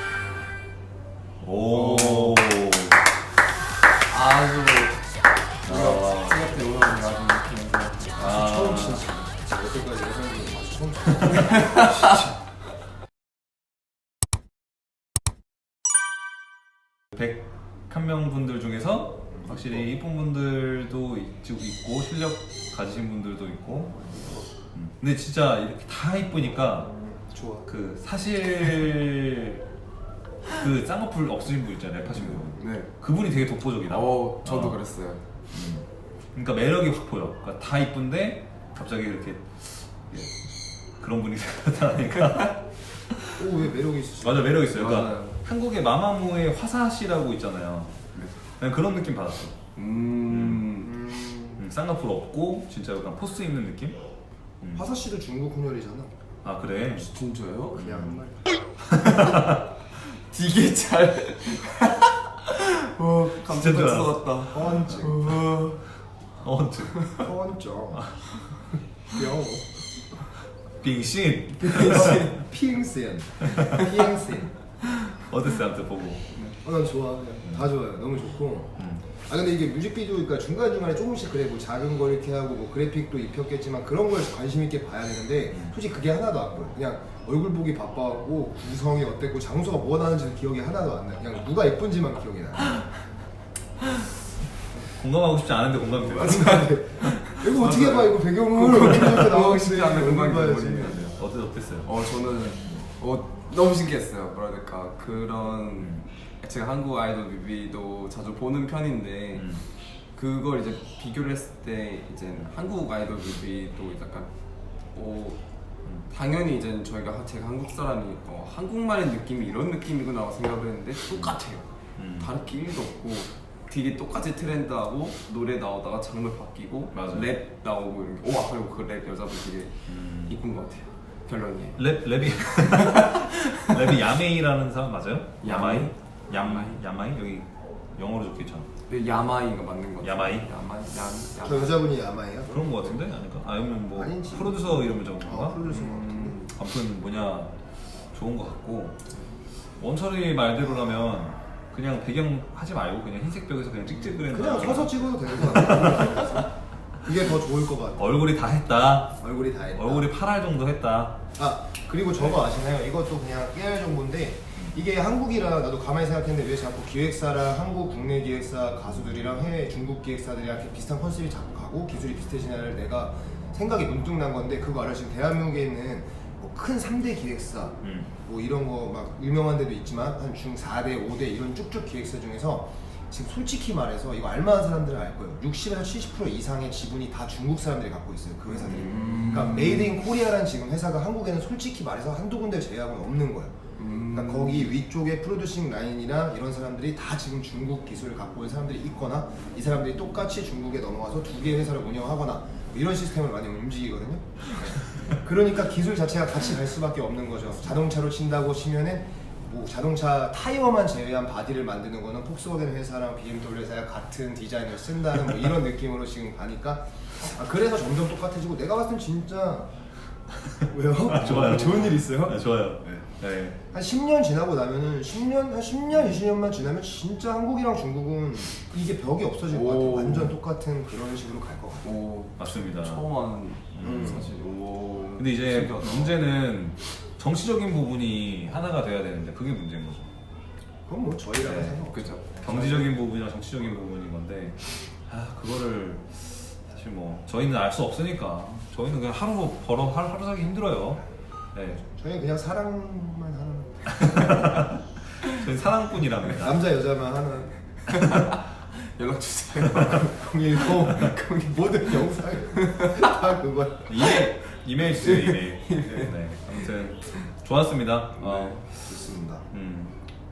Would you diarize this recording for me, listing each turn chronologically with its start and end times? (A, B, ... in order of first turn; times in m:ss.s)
0:01.4-0:03.0 A
0:01.7-0:02.4 B
0:04.1-0:05.1 B
0:05.6-0:08.2 B
0:05.6-0:06.4 A
0:08.2-0:12.3 C
0:08.2-0:09.1 A
0:17.1-0:24.0 A
0:19.3-0:19.8 C
0:24.0-0:24.4 C
0:24.7-0:26.9 A
0:26.9-0:27.6 C
0:27.6-0:29.6 A
0:30.5-0:34.8 A
0:32.5-0:32.9 B
0:33.9-0:35.2 B
0:35.5-0:40.3 A
0:41.0-0:43.5 A
0:43.4-0:44.4 C
0:44.2-0:48.0 A
0:44.7-0:45.4 B
0:48.6-0:49.6 A
0:49.8-0:50.9 B
0:50.3-0:50.8 A
0:50.8-0:51.6 C
0:51.6-0:54.0 A
0:54.7-0:56.1 C
0:56.4-0:57.1 A
0:56.9-0:58.0 B
0:57.8-0:58.2 A
0:57.8-0:58.5 C
0:58.9-0:59.6 A
0:59.1-1:05.9 B
1:03.4-1:05.5 A
1:04.5-1:05.2 C
1:06.3-1:07.2 A
1:07.2-1:08.1 C
1:07.9-1:08.2 A
1:09.0-1:10.1 C
1:10.8-1:12.3 A
1:11.6-1:12.4 B
1:11.9-1:14.5 C
1:13.4-1:13.9 A
1:15.1-1:16.4 A
1:16.5-1:32.9 C
1:18.8-1:19.1 A
1:34.8-1:37.5 A
1:36.2-1:41.1 C
1:37.4-1:41.2 B
1:41.0-1:41.9 A
1:41.8-1:49.6 B
1:45.8-1:46.0 A
1:49.3-1:49.6 A
1:50.1-1:54.3 B
1:54.9-1:55.4 B
1:56.1-2:01.6 B
2:02.0-2:02.3 A
2:02.2-2:11.9 B
2:06.9-2:07.3 A
2:09.9-2:10.4 A
2:11.8-2:18.7 A
2:12.7-2:14.0 B
2:15.4-2:16.8 B
2:18.9-2:21.8 B
2:20.0-2:20.5 A
2:21.4-2:22.7 C
2:22.5-2:25.6 A
2:24.0-2:26.5 C
2:25.6-2:26.5 B
2:26.4-2:29.0 A
2:29.8-2:36.4 A
2:34.3-2:38.1 C
2:38.0-2:41.3 A
2:39.2-2:40.1 C
2:41.3-3:13.5 C
2:57.8-2:58.1 A
3:08.5-3:09.9 B
3:13.8-3:14.8 B
3:14.1-3:39.7 C
3:40.7-3:43.1 C
3:41.1-3:43.6 A
3:43.7-3:52.0 C
3:45.9-3:46.2 A
3:49.5-3:50.4 B
3:51.8-3:56.2 B
3:52.4-3:53.0 A
3:53.7-3:54.3 A
3:53.8-3:54.2 C
3:55.2-4:00.1 A
4:00.9-4:02.9 C
4:01.4-4:11.8 A
4:01.9-4:02.2 B
4:11.7-4:13.9 C
4:13.9-4:16.6 A
4:16.4-4:17.6 C
4:17.9-4:23.1 B
4:17.9-4:18.3 A
4:20.4-4:23.9 C
4:23.8-4:29.0 A
4:24.0-4:24.4 B
4:24.9-4:27.2 B
4:28.2-4:29.5 C
4:29.5-4:30.0 A